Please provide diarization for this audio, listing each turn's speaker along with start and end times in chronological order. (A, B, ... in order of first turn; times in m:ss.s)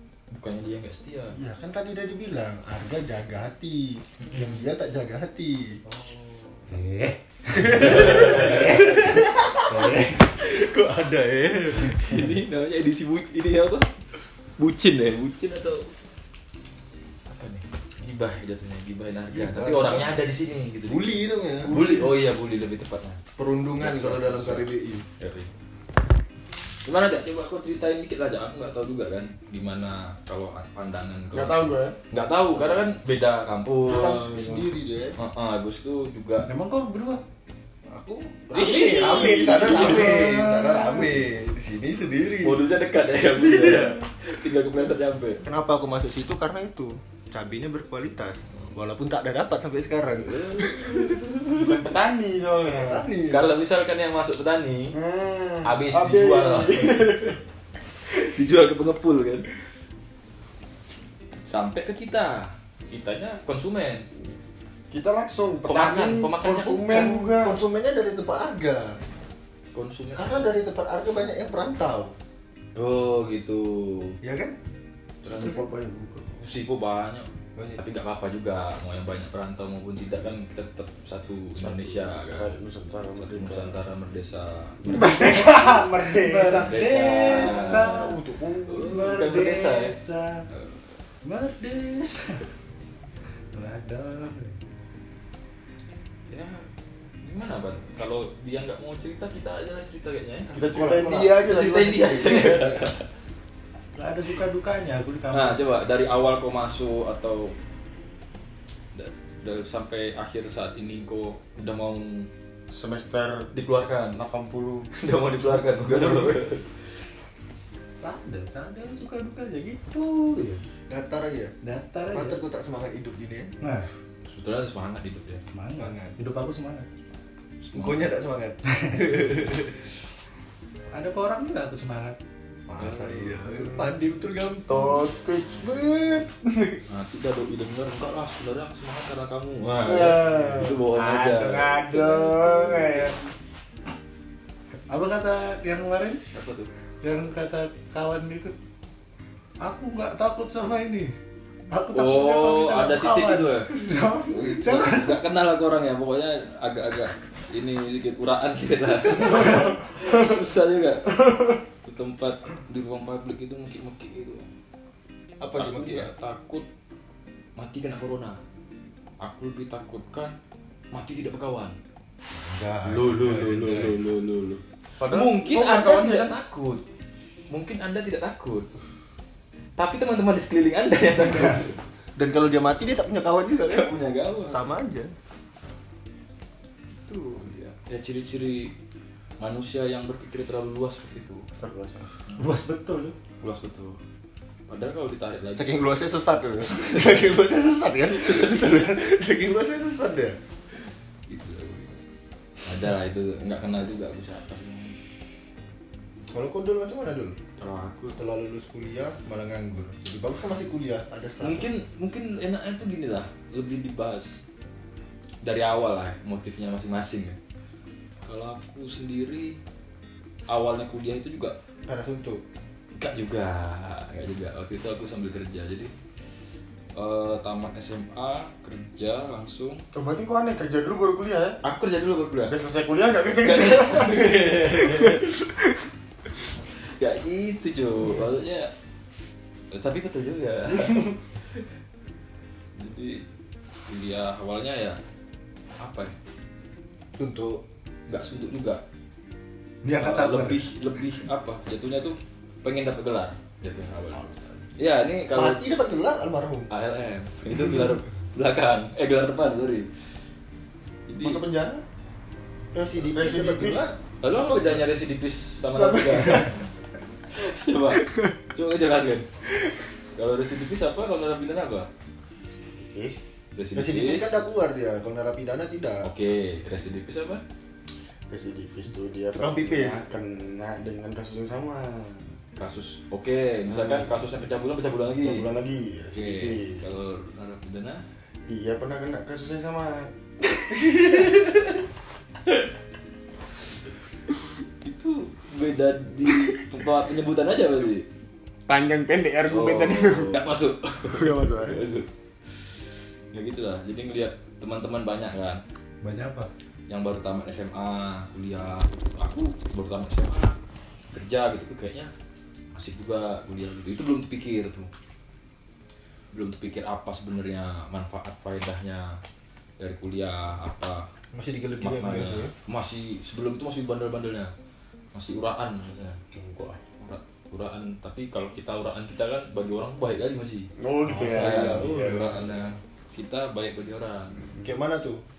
0:00.3-0:01.4 A
0:01.3-0:05.8 B
0:05.9-0:06.7 A
0:06.7-0:10.2 C
0:07.5-0:12.3 B
0:07.7-0:08.8 A
0:12.0-0:13.9 A
0:14.6-0:15.9 A
0:17.3-0:21.1 A
0:19.3-0:20.1 B
0:20.9-0:21.8 B
0:21.7-0:23.2 A
0:23.4-0:25.0 B
0:23.8-0:25.5 A
0:26.8-0:34.6 A
0:31.3-0:32.0 D
0:33.8-0:35.2 B
0:34.1-0:34.5 D
0:35.2-0:36.5 A
0:36.4-0:37.2 C
0:37.9-0:42.6 B
0:38.5-0:40.3 A
0:38.7-0:40.7 D
0:39.4-0:41.0 C
0:42.4-0:45.4 A
0:43.7-0:43.9 B
0:45.4-0:51.2 B
0:50.2-0:51.7 A
0:51.6-0:53.0 D
0:52.7-0:53.4 B
0:53.3-0:54.9 A
0:54.9-0:57.4 D
0:55.6-0:57.2 A
0:58.1-0:59.5 A
1:01.5-1:04.1 A
1:04.9-1:07.6 D
1:05.6-1:07.1 A
1:06.6-1:09.0 B
1:09.7-1:10.5 A
1:10.2-1:12.1 B
1:12.8-1:14.2 A
1:14.2-1:14.6 B
1:15.2-1:16.4 D
1:16.4-1:22.5 A
1:17.6-1:17.8 B
1:21.6-1:23.8 D
1:23.2-1:25.3 A
1:24.9-1:28.9 D
1:24.9-1:28.2 C
1:26.6-1:28.1 A
1:28.7-1:29.9 A
1:28.8-1:30.4 C
1:30.5-1:30.8 A
1:31.2-1:32.5 C
1:33.5-1:34.6 C
1:36.3-1:36.6 A
1:37.2-1:40.5 A
1:40.5-1:41.4 B
1:40.5-1:42.6 D
1:41.4-1:43.0 A
1:42.3-1:42.8 B
1:44.0-1:45.6 C
1:45.3-1:47.5 A
1:48.9-1:52.3 A
1:52.7-1:53.5 D
1:53.5-1:54.2 A
1:54.1-1:54.9 D
1:55.0-1:56.8 A
1:58.0-2:00.6 C
2:00.9-2:01.5 B
2:01.6-2:02.4 C
2:02.1-2:03.5 B
2:03.6-2:03.9 C
2:04.3-2:05.4 A
2:05.5-2:06.9 C
2:05.8-2:06.1 B
2:07.6-2:08.1 A
2:07.7-2:09.9 B
2:08.7-2:09.0 C
2:10.9-2:12.2 C
2:12.7-2:15.1 B
2:13.4-2:13.8 D
2:14.7-2:16.8 D
2:16.9-2:23.1 A
2:19.8-2:23.1 D
2:24.9-2:26.2 C
2:26.3-2:26.7 A
2:27.0-2:28.5 C
2:29.6-2:31.1 C
2:31.7-2:35.2 C
2:31.9-2:33.7 A
2:34.3-2:41.2 A
2:41.8-2:44.5 A
2:45.4-2:46.1 B
2:45.6-2:46.6 A
2:47.6-2:48.4 A
2:49.2-2:50.3 A
2:50.9-2:51.8 A
2:52.4-2:53.9 B
2:52.8-2:56.8 A
2:55.0-2:56.3 D
2:57.5-2:58.7 A
2:59.8-3:01.8 A
3:02.2-3:05.1 B
3:03.7-3:04.6 A
3:07.1-3:08.7 A
3:09.4-3:11.4 A
3:11.6-3:12.0 D
3:12.4-3:13.2 C
3:13.4-3:14.0 A
3:14.7-3:15.7 A
3:15.6-3:20.4 B
3:18.2-3:18.9 A
3:20.9-3:22.0 A
3:22.6-3:25.0 A
3:26.3-3:27.4 B
3:27.6-3:28.2 A
3:28.1-3:31.7 B
3:31.4-3:34.4 A
3:35.4-3:37.4 A
3:38.2-3:39.6 A
3:40.5-3:41.5 A
3:41.9-3:42.4 B
3:43.0-3:45.9 A
3:47.0-3:49.8 A
3:49.9-3:51.6 D
3:51.6-3:52.5 A
3:52.4-3:55.8 D
3:53.4-3:55.2 A
3:57.0-3:58.7 A
3:59.7-4:01.7 A
4:02.8-4:03.2 A
4:03.9-4:05.0 A
4:05.8-4:06.1 A
4:07.2-4:07.6 B
4:08.1-4:08.8 A
4:09.8-4:10.6 C
4:09.9-4:14.2 A
4:14.8-4:15.7 A
4:15.3-4:16.7 B
4:16.7-4:19.9 A
4:21.1-4:21.4 A
4:21.2-4:21.8 D
4:22.7-4:23.9 B
4:22.9-4:23.9 D
4:24.2-4:26.6 A
4:24.5-4:24.8 D
4:25.6-4:26.5 D
4:27.3-4:29.2 A
4:28.0-4:28.3 D
4:30.2-4:31.9 A
4:32.8-4:33.3 D
4:33.5-4:34.3 A
4:33.7-4:36.1 B
4:36.0-4:37.4 A
4:38.3-4:42.3 D
4:39.4-4:40.0 B
4:42.6-4:45.4 A
4:43.7-4:44.1 D
4:45.2-4:47.0 D
4:46.1-4:48.0 A
4:48.5-4:50.1 D
4:51.1-4:51.4 B
4:54.8-4:58.0 A
4:58.7-5:00.4 D
4:59.5-5:05.6 A
5:01.1-5:01.8 D
5:06.0-5:06.5 C
5:06.9-5:10.6 A
5:11.1-5:12.1 A
5:12.7-5:14.9 A
5:16.3-5:19.1 A
5:19.8-5:21.0 A
5:21.3-5:22.5 B
5:21.8-5:24.5 A
5:25.1-5:26.2 A
5:26.4-5:26.8 D
5:27.0-5:30.7 A
5:30.8-5:32.5 D
5:31.1-5:32.6 B
5:31.3-5:34.4 A
5:34.6-5:35.2 B